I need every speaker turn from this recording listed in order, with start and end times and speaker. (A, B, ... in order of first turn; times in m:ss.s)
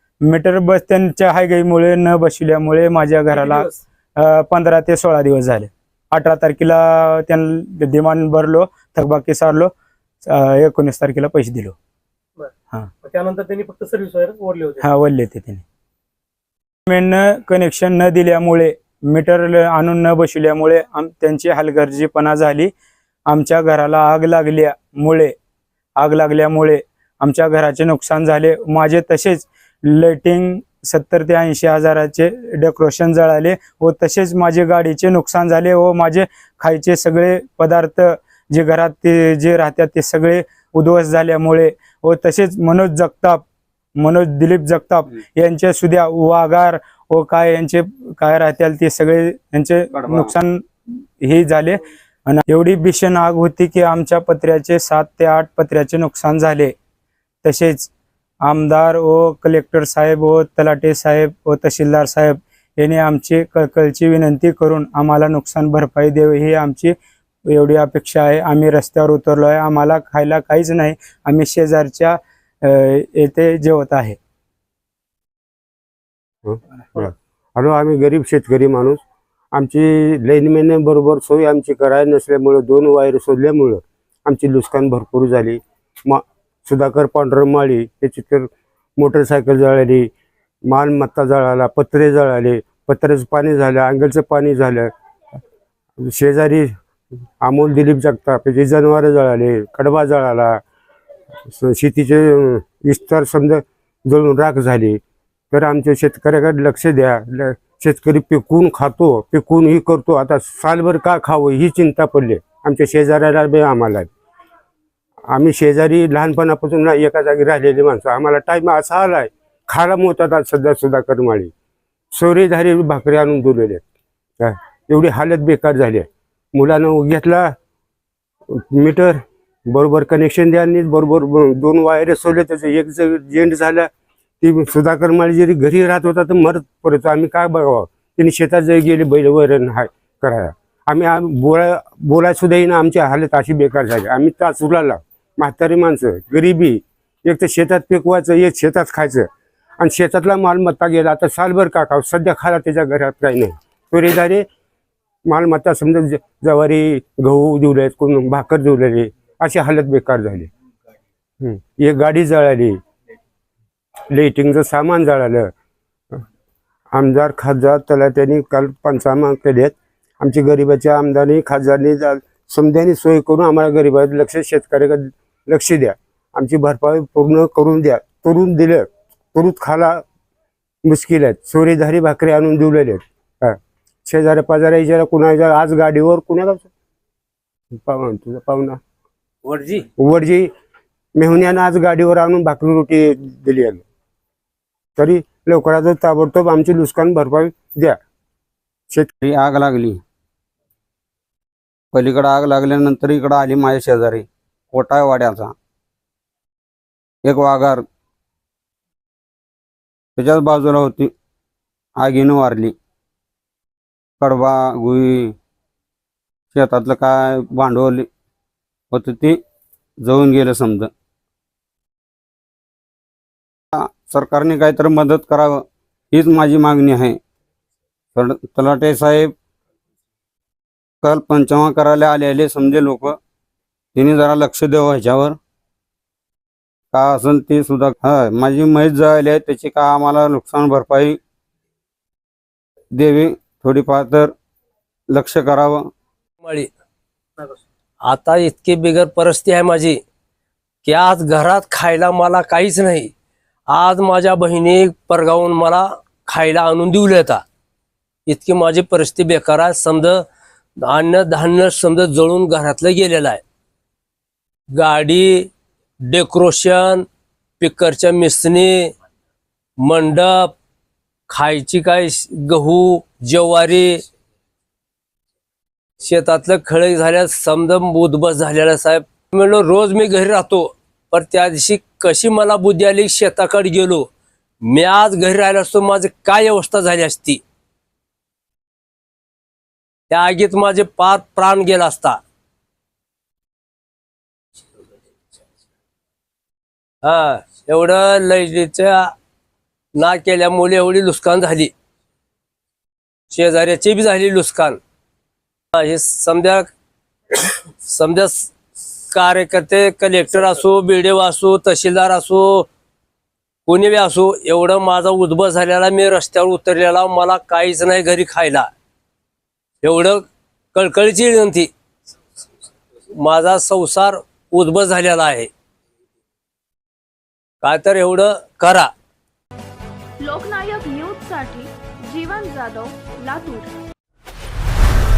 0:00.2-0:09.7 A
0:03.3-0:03.8 B
0:10.2-0:11.8 A
0:13.0-0:14.8 B
0:14.8-0:15.6 A
0:16.9-0:22.7 A
0:23.3-0:25.3 A
0:26.0-0:43.4 A
0:44.0-0:56.7 A
0:50.0-0:50.3 C
0:57.4-0:57.9 A
0:58.4-1:06.9 A
1:07.5-1:14.2 A
1:16.4-1:19.0 D
1:19.5-1:30.1 D
1:30.6-1:34.9 D
1:36.0-1:36.7 D
1:37.4-1:40.6 D
1:41.5-1:45.0 D
1:45.5-1:54.1 D
1:55.3-2:01.5 D
2:02.1-2:03.8 D
2:04.4-2:07.5 D
2:08.5-2:13.9 D
2:14.4-2:34.4 D
2:35.2-2:40.5 D
2:41.4-2:42.8 D
2:44.1-2:45.5 D
2:46.9-3:00.0 D
3:00.8-3:06.7 D
3:07.7-3:08.8 D
3:09.4-3:09.8 E
3:10.0-3:10.5 D
3:11.2-3:13.8 D
3:15.0-3:18.0 D
3:19.2-3:20.0 C
3:21.9-3:25.5 C
3:27.2-3:27.8 C
3:30.2-3:31.1 C
3:32.0-3:32.8 C
3:34.2-3:35.4 C
3:36.5-3:38.1 C
3:38.9-3:39.4 C
3:40.0-3:40.9 C
3:43.7-3:47.2 C
3:48.1-3:49.3 C
3:51.0-3:53.2 C
3:53.9-3:55.4 C
3:56.9-4:01.2 C
4:02.9-4:04.3 C
4:05.1-4:05.9 C
4:06.4-4:06.7 E
4:08.0-4:10.0 E
4:10.8-4:13.1 E
4:13.7-4:17.4 E
4:18.3-4:20.2 E
4:20.8-4:23.4 E
4:24.7-4:25.5 E
4:26.1-4:27.0 E
4:27.6-4:28.9 E
4:29.8-4:30.5 E
4:31.3-4:34.0 E
4:36.0-4:44.1 E
4:44.6-4:47.4 E
4:50.1-4:52.2 E
4:57.0-4:59.1 E
5:00.0-5:01.7 E
5:03.3-5:04.8 E
5:05.7-5:06.7 E
5:07.3-5:08.5 E
5:09.1-5:12.7 E
5:13.6-5:18.7 E
5:19.8-5:21.7 E
5:23.1-5:25.5 E
5:27.6-5:28.9 E
5:30.2-5:33.7 F